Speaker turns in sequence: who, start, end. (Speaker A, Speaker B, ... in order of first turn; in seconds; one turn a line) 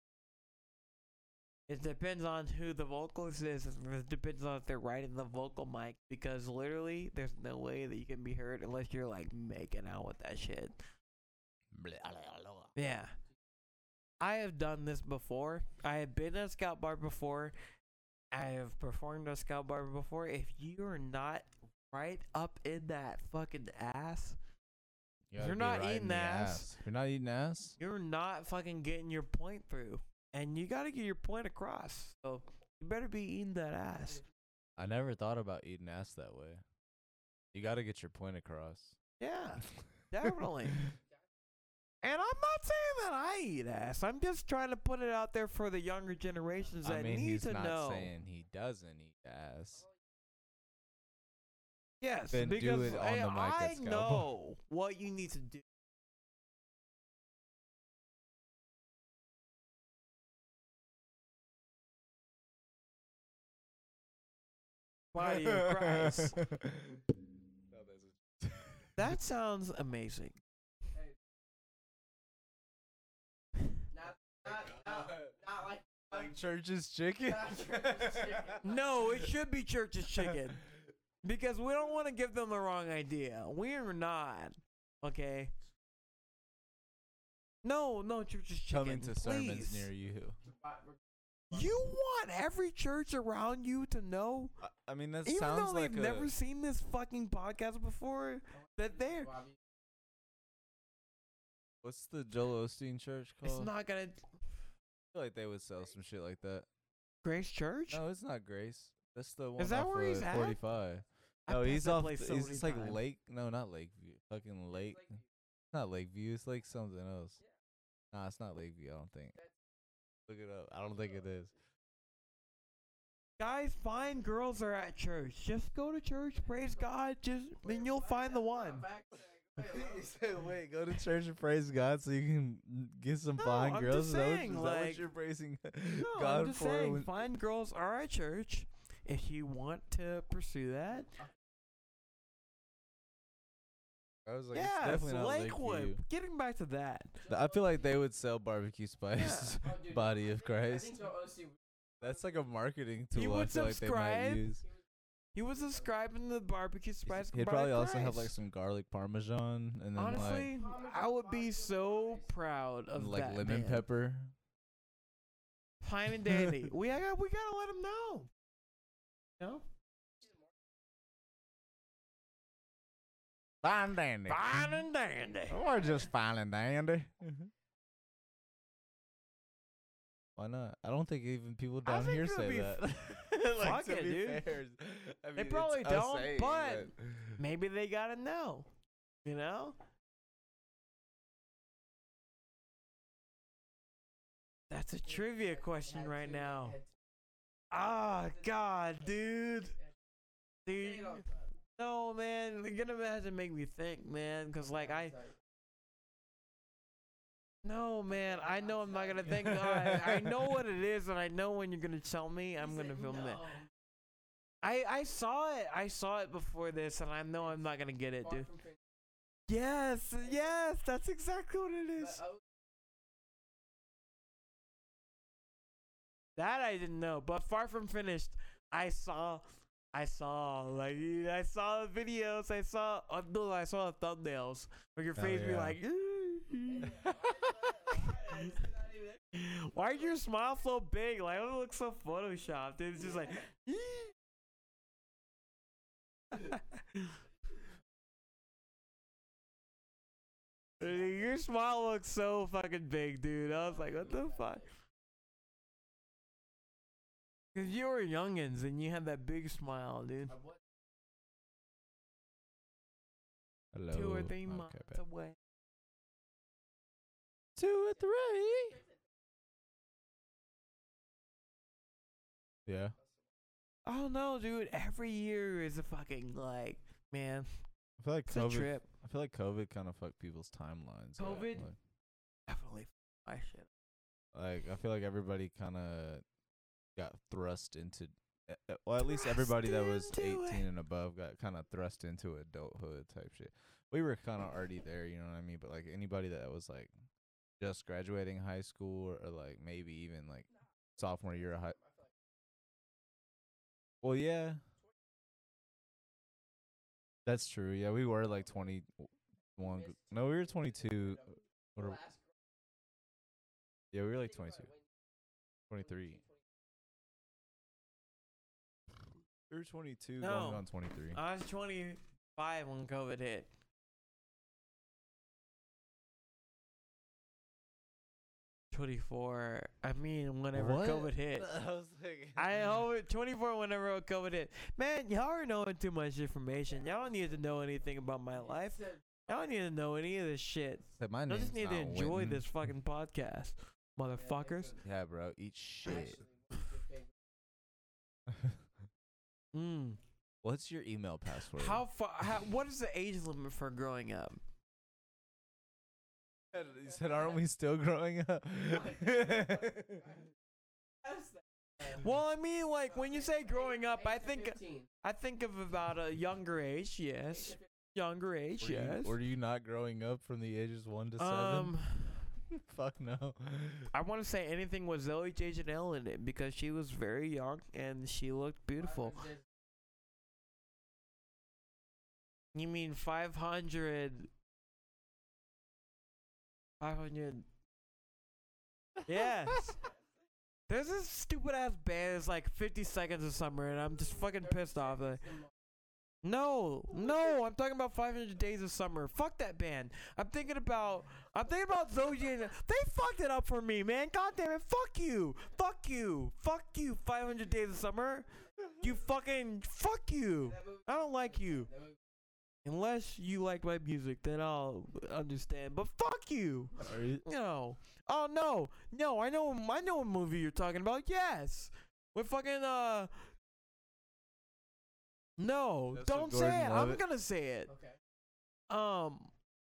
Speaker A: 1.7-10.8
Speaker B: 11.7-12.7
Speaker A: 12.8-13.2
Speaker A: 14.2-17.6
Speaker A: 18.3-24.4
Speaker B: 25.3-27.8
Speaker A: 25.4-26.7
Speaker A: 27.8-34.2
Speaker B: 34.8-36.6
Speaker B: 37.5-39.0
Speaker A: 39.2-40.9
Speaker B: 39.8-40.9
Speaker A: 42.0-48.1
Speaker B: 46.8-49.9
Speaker A: 52.0-55.6
Speaker B: 52.3-54.3
Speaker A: 65.1-66.4
Speaker B: 65.2-67.2
Speaker B: 67.7-68.9
Speaker A: 69.0-70.4
Speaker B: 74.5-75.5
Speaker B: 76.1-79.3
Speaker A: 78.6-80.6
Speaker A: 81.2-85.5
Speaker A: 87.6-89.9
Speaker B: 88.7-90.4
Speaker A: 91.5-94.5
Speaker B: 94.6-96.3
Speaker A: 95.2-99.4
Speaker B: 101.8-103.7
Speaker A: 103.4-104.3
Speaker B: 105.1-106.7
Speaker A: 107.2-108.0
Speaker B: 107.9-115.2
Speaker A: 109.6-110.6
Speaker A: 111.5-113.0
Speaker B: 115.7-117.4
Speaker B: 118.1-119.4
Speaker B: 120.3-121.5
Speaker A: 123.4-129.0
Speaker B: 129.6-137.2
Speaker A: 133.4-135.1
Speaker A: 136.0-141.2
Speaker B: 144.3-146.0
Speaker A: 144.5-147.3
Speaker B: 147.2-151.3
Speaker A: 149.2-149.7
Speaker B: 152.0-154.7
Speaker A: 153.1-154.5
Speaker A: 155.3-158.3
Speaker B: 157.1-160.6
Speaker A: 160.0-163.9
Speaker B: 162.9-164.3
Speaker A: 165.8-168.3
Speaker B: 166.2-166.7
Speaker B: 173.6-174.9
Speaker A: 174.3-175.6
Speaker B: 175.5-177.5
Speaker B: 180.4-187.4
Speaker A: 181.8-182.8
Speaker A: 183.6-184.5
Speaker A: 185.4-188.7
Speaker A: 189.2-189.8
Speaker A: 194.7-196.8
Speaker A: 197.7-199.8
Speaker A: 200.7-205.2
Speaker A: 207.6-213.6
Speaker B: 209.3-210.6
Speaker A: 214.6-218.6
Speaker A: 219.5-222.2
Speaker A: 226.4-244.1
Speaker B: 235.2-235.8
Speaker B: 236.9-237.7
Speaker A: 246.3-247.2
Speaker A: 250.8-254.7
Speaker A: 257.5-260.4
Speaker B: 263.7-265.0
Speaker A: 263.9-265.4
Speaker B: 267.6-268.8
Speaker B: 272.7-273.0
Speaker A: 273.9-277.6
Speaker B: 278.0-281.8
Speaker A: 278.3-278.9
Speaker A: 281.2-281.7
Speaker A: 282.5-283.7
Speaker B: 284.3-286.2
Speaker B: 287.0-296.9
Speaker A: 289.0-290.7
Speaker B: 297.6-301.8
Speaker B: 304.0-304.6
Speaker B: 307.3-312.1
Speaker B: 313.9-314.7
Speaker B: 315.7-316.2
Speaker B: 319.5-321.2
Speaker A: 320.2-323.5
Speaker A: 328.7-331.5
Speaker B: 330.5-332.8
Speaker A: 332.4-344.8
Speaker B: 341.0-342.4
Speaker B: 344.8-346.2
Speaker B: 348.3-348.6
Speaker A: 349.5-350.0
Speaker B: 350.4-351.8
Speaker A: 351.5-354.4
Speaker B: 356.5-360.2
Speaker A: 361.8-369.2
Speaker B: 368.6-371.8
Speaker A: 371.2-372.2
Speaker B: 372.5-373.9
Speaker A: 373.9-379.4
Speaker A: 382.6-384.3
Speaker A: 386.8-387.5
Speaker A: 389.1-389.8
Speaker A: 390.7-395.4
Speaker A: 396.2-411.8
Speaker A: 412.6-423.2
Speaker B: 416.8-417.2
Speaker A: 425.4-427.8
Speaker B: 425.9-427.0
Speaker A: 428.7-429.3